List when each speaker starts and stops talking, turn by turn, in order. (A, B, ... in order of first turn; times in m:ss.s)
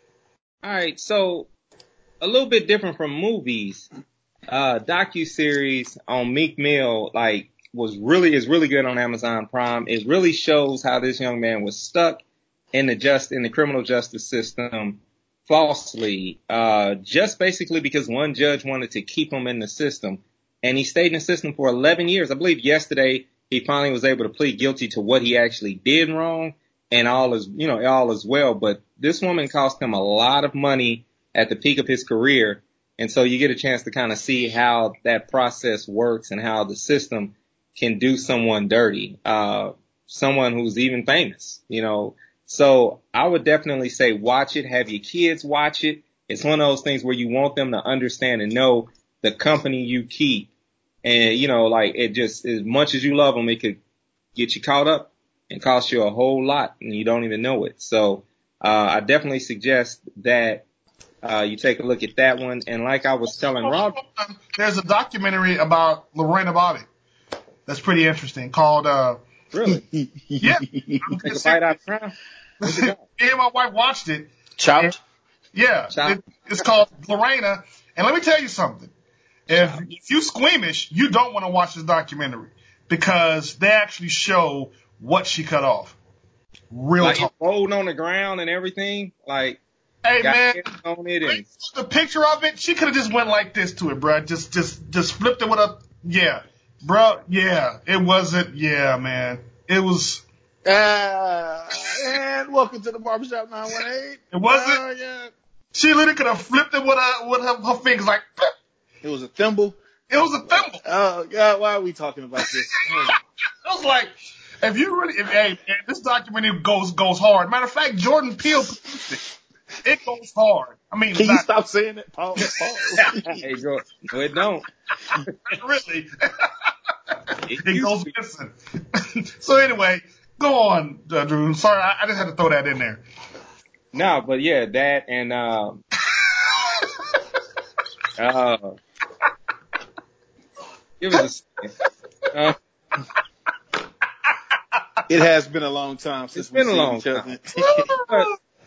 0:00.6-0:01.5 A
0:02.2-0:03.8 A
0:04.5-0:50.5 A
0:51.0-0:53.8 A
0:54.3-1:00.6 A
1:01.2-1:04.0 A
1:03.6-1:06.9 B
1:07.7-1:09.2 B
1:09.5-1:09.8 A
1:09.7-1:11.0 C
1:10.4-1:11.6 B
1:11.1-1:13.0 A
1:12.6-1:14.9 B
1:14.6-1:15.0 C
1:15.5-1:18.9 B
1:15.9-1:16.2 A
1:19.5-1:25.9 B
1:19.6-1:19.8 A
1:26.7-1:27.3 B
1:27.0-1:29.6 A
1:30.0-1:30.7 B
1:30.2-1:31.4 A
1:31.2-1:40.2 B
1:40.6-1:45.3 C
1:44.3-1:44.8 B
1:45.7-1:48.5 B
1:49.0-1:49.8 C
1:50.1-1:50.8 B
1:50.4-1:53.2 C
1:53.6-1:59.2 B
1:59.8-2:01.4 B
2:01.1-2:03.4 C
2:03.0-2:04.7 A
2:05.4-2:06.5 B
2:07.4-2:08.1 A
2:07.6-2:13.0 B
2:13.9-2:15.8 A
2:16.1-2:16.9 B
2:18.2-2:18.8 A
2:21.0-2:21.7 A
2:25.1-2:27.9 C
2:26.3-2:27.3 A
2:27.6-2:28.3 B
2:28.0-2:28.3 A